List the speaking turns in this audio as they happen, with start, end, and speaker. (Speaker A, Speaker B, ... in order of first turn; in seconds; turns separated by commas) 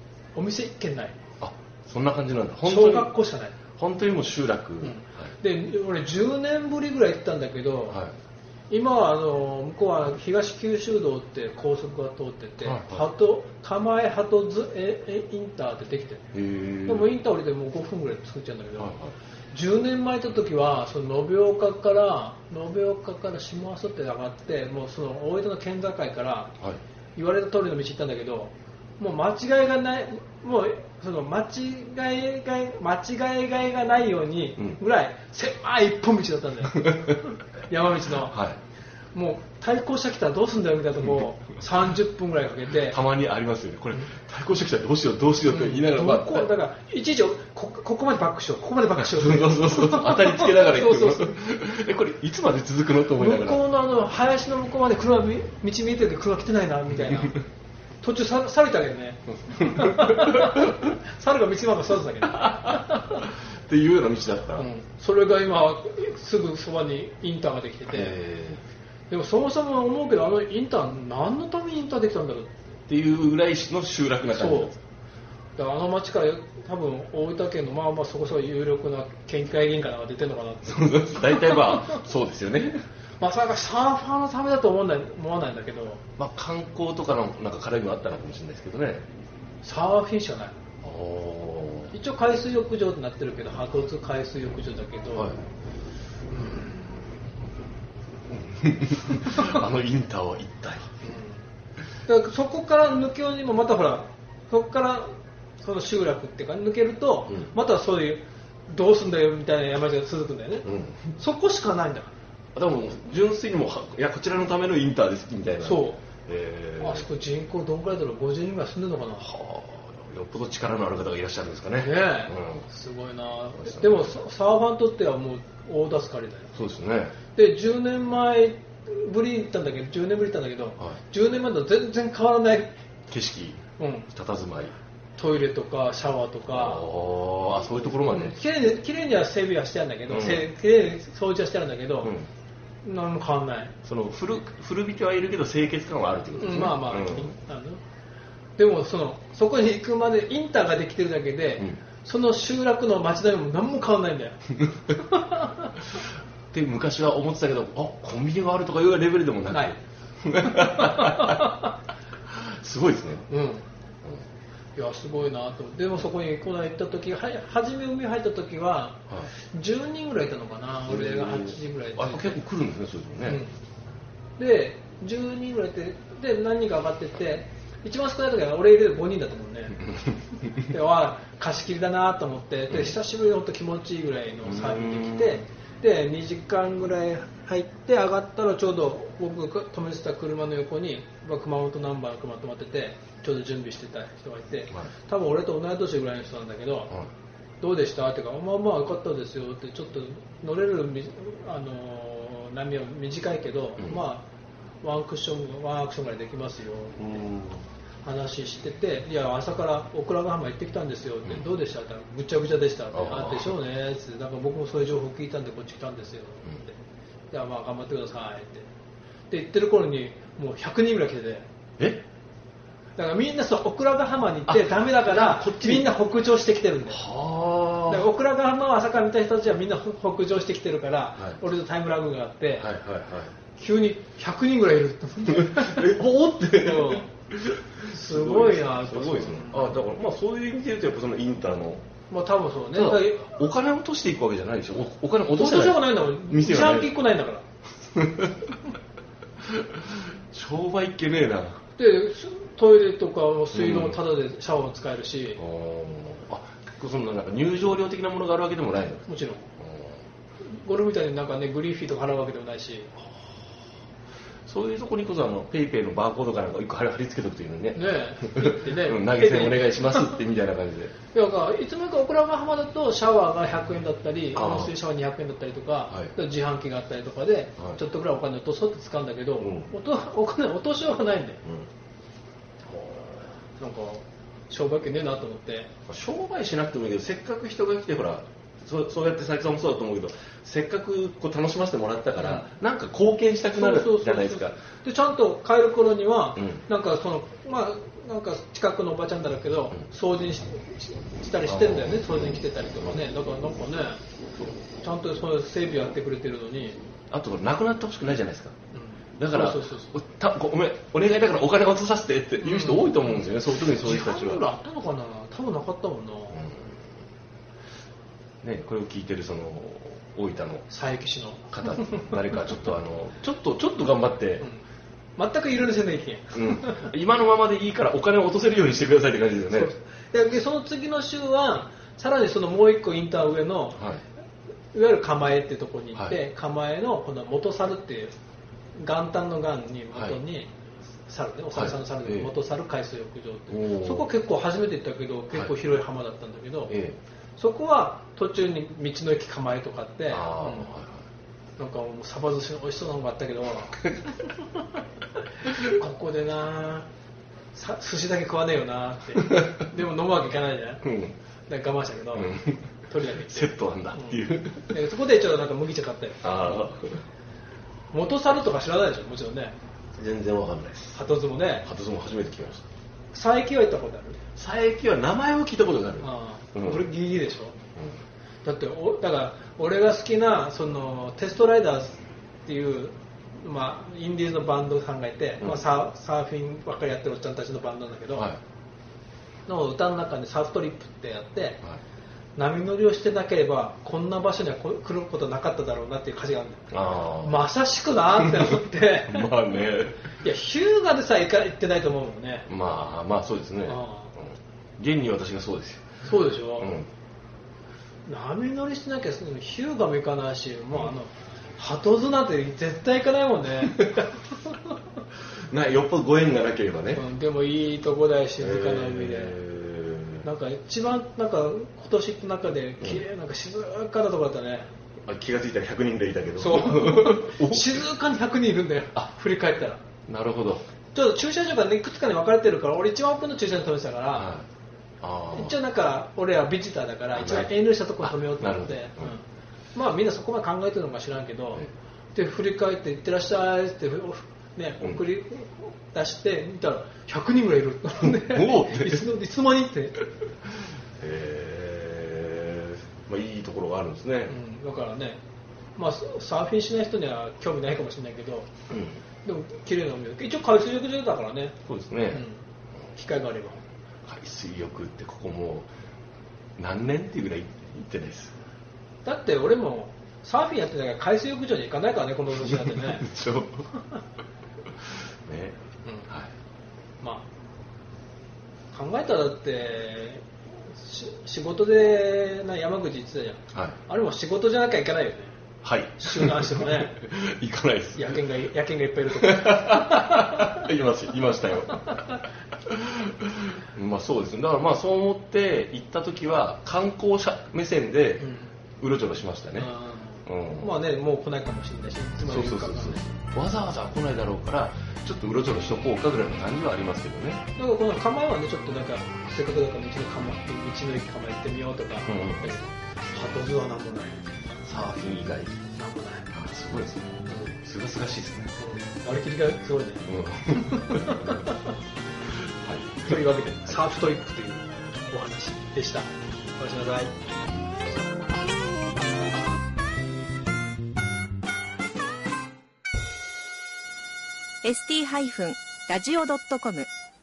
Speaker A: 0.3-1.2, Speaker B: 1.4-3.1, Speaker A: 2.6-3.6, Speaker B: 3.8-5.3, Speaker A: 4.8-8.0, Speaker B: 7.9-8.1, Speaker A: 8.7-16.2, Speaker B: 12.6-13.1, Speaker B: 16.3-17.1, Speaker A: 16.8-19.0, Speaker B: 18.8-19.1, Speaker A: 19.5-26.6, Speaker A: 27.1-38.4, Speaker B: 36.7-37.2, Speaker B: 38.2-38.6, Speaker A: 39.1-43.0, Speaker B: 42.8-46.5, Speaker A: 45.5-51.4, Speaker B: 49.0-53.6, Speaker A: 53.2-57.4, Speaker A: 58.0-63.3, Speaker B: 59.5-60.8, Speaker B: 62.6-64.7, Speaker A: 64.5-68.2, Speaker B: 67.9-68.6, Speaker A: 69.1-72.5, Speaker B: 72.9-74.8, Speaker A: 74.3-74.8, Speaker A: 75.5-82.0, Speaker B: 80.6-82.8, Speaker A: 83.2-86.0, Speaker B: 86.2-89.1, Speaker A: 89.6-90.6, Speaker B: 90.8-91.9, Speaker A: 91.9-95.3, Speaker A: 96.3-96.8, Speaker B: 98.3-101.0, Speaker A: 101.0-101.4, Speaker A: 102.0-112.1, Speaker B: 110.6-111.1, Speaker B: 112.5-117.1, Speaker A: 115.6-116.0, Speaker A: 116.8-119.3, Speaker B: 119.2-122.7, Speaker A: 121.8-126.5, Speaker B: 123.6-124.1, Speaker B: 126.5-127.2, Speaker A: 127.3-132.7, Speaker B: 133.1-133.6, Speaker A: 133.8-134.1, Speaker B: 134.1-134.8, Speaker A: 135.2-136.8, Speaker B: 136.5-138.4, Speaker A: 138.0-142.2, Speaker B: 140.1-140.4, Speaker B: 142.0-142.3, Speaker A: 142.8-143.7, Speaker B: 143.8-147.3, Speaker A: 146.4-147.8, Speaker A: 148.6-155.9, Speaker B: 156.5-161.5, Speaker A: 159.5-159.8, Speaker A: 160.4-161.7, Speaker B: 162.3-163.3, Speaker A: 163.3-163.6, Speaker A: 164.8-172.4, Speaker B: 170.9-173.4, Speaker A: 173.2-173.5, Speaker A: 174.4-196.9, Speaker B: 179.9-180.6, Speaker B: 182.7-182.9, Speaker B: 184.4-185.4, Speaker A: 197.6-204.2, Speaker B: 203.8-204.0, Speaker A: 204.8-207.1, Speaker B: 207.0-207.6, Speaker A: 208.0-216.8, Speaker B: 212.9-213.6, Speaker A: 217.3-218.7, Speaker A: 219.3-221.4, Speaker A: 222.9-227.0, Speaker B: 224.5-225.9, Speaker B: 226.9-228.1, Speaker A: 227.9-232.7, Speaker B: 232.6-233.3, Speaker A: 233.5-236.0, Speaker B: 235.2-241.8, Speaker A: 236.6-237.1, Speaker A: 237.8-239.7, Speaker A: 242.1-243.4, Speaker B: 242.7-247.0, Speaker A: 245.3-247.4, Speaker B: 247.9-248.6, Speaker B: 249.4-251.6, Speaker A: 251.8-255.4, Speaker B: 253.5-254.0, Speaker B: 255.4-259.1, Speaker A: 259.1-259.5, Speaker B: 259.6-260.0, Speaker A: 260.4-262.9, Speaker B: 264.4-270.9, Speaker A: 267.7-270.2, Speaker A: 271.1-281.4, Speaker B: 274.3-274.7, Speaker B: 279.4-279.7, Speaker B: 282.7-283.2, Speaker A: 283.6-285.7, Speaker B: 285.9-294.6, Speaker A: 292.2-292.4, Speaker A: 293.5-304.0, Speaker B: 296.4-296.6, Speaker B: 301.4-303.0, Speaker A: 304.8-306.8, Speaker B: 307.1-308.5, Speaker A: 308.7-309.9, Speaker B: 309.2-314.5, Speaker A: 312.4-313.1, Speaker A: 313.6-316.4, Speaker B: 316.3-316.8, Speaker B: 318.4-320.7, Speaker A: 320.7-322.2, Speaker B: 321.5-324.5, Speaker A: 325.2-326.9, Speaker B: 326.3-329.7, Speaker A: 329.5-333.9, Speaker B: 333.8-334.0, Speaker A: 334.7-338.1, Speaker A: 338.8-340.5, Speaker B: 339.9-340.2, Speaker A: 341.1-346.7, Speaker B: 341.5-342.3, Speaker B: 343.5-344.1, Speaker B: 346.7-347.0, Speaker A: 347.4-350.7, Speaker B: 350.1-351.1, Speaker A: 351.6-353.9, Speaker A: 355.4-356.9, Speaker A: 357.5-360.9, Speaker B: 359.2-359.6, Speaker B: 360.8-361.1, Speaker A: 361.5-366.5, Speaker B: 362.1-364.8, Speaker B: 366.2-367.0, Speaker A: 367.9-369.6, Speaker B: 369.9-371.0, Speaker A: 370.9-371.7, Speaker B: 371.6-372.6, Speaker A: 373.1-374.2, Speaker B: 374.4-376.9, Speaker A: 376.0-377.6, Speaker A: 378.4-388.3, Speaker B: 388.1-388.4, Speaker A: 389.4-391.6, Speaker A: 392.4-399.3, Speaker B: 396.7-397.4, Speaker B: 398.2-400.0, Speaker A: 400.2-402.5, Speaker B: 402.5-406.9, Speaker A: 403.6-404.1, Speaker A: 406.0-406.7, Speaker A: 408.1-414.8, Speaker B: 415.3-417.0, Speaker A: 416.9-419.4, Speaker B: 418.4-420.3, Speaker A: 420.2-424.7, Speaker B: 425.1-427.9, Speaker A: 426.4-429.8, Speaker B: 430.1-430.6, Speaker A: 430.9-434.3, Speaker B: 434.1-434.4, Speaker B: 435.0-435.6, Speaker A: 435.3-450.0, Speaker B: 437.1-439.1, Speaker B: 448.0-449.1, Speaker B: 450.5-454.4, Speaker A: 454.3-455.2, Speaker A: 455.8-458.5, Speaker B: 458.7-459.0, Speaker A: 459.2-461.6, Speaker B: 461.6-462.2, Speaker A: 462.1-463.6, Speaker B: 464.0-465.7, Speaker B: 466.6-468.3, Speaker A: 469.0-473.1, Speaker B: 472.3-473.7, Speaker B: 474.9-475.6, Speaker A: 475.8-476.1, Speaker A: 477.0-477.3, Speaker A: 478.7-485.4, Speaker B: 485.6-488.2, Speaker A: 486.0-487.0, Speaker A: 487.9-490.7, Speaker B: 489.2-499.7, Speaker A: 491.8-492.2, Speaker A: 498.2-498.5, Speaker A: 499.6-503.1, Speaker B: 500.2-500.7, Speaker B: 502.2-507.4, Speaker A: 507.6-514.3, Speaker B: 512.1-512.6, Speaker B: 514.6-515.6, Speaker A: 515.7-516.3, Speaker B: 516.3-518.6, Speaker A: 517.2-517.5, Speaker A: 518.6-521.7, Speaker B: 520.1-521.4, Speaker B: 522.3-523.8, Speaker A: 523.0-527.2, Speaker C: 534.6-536.9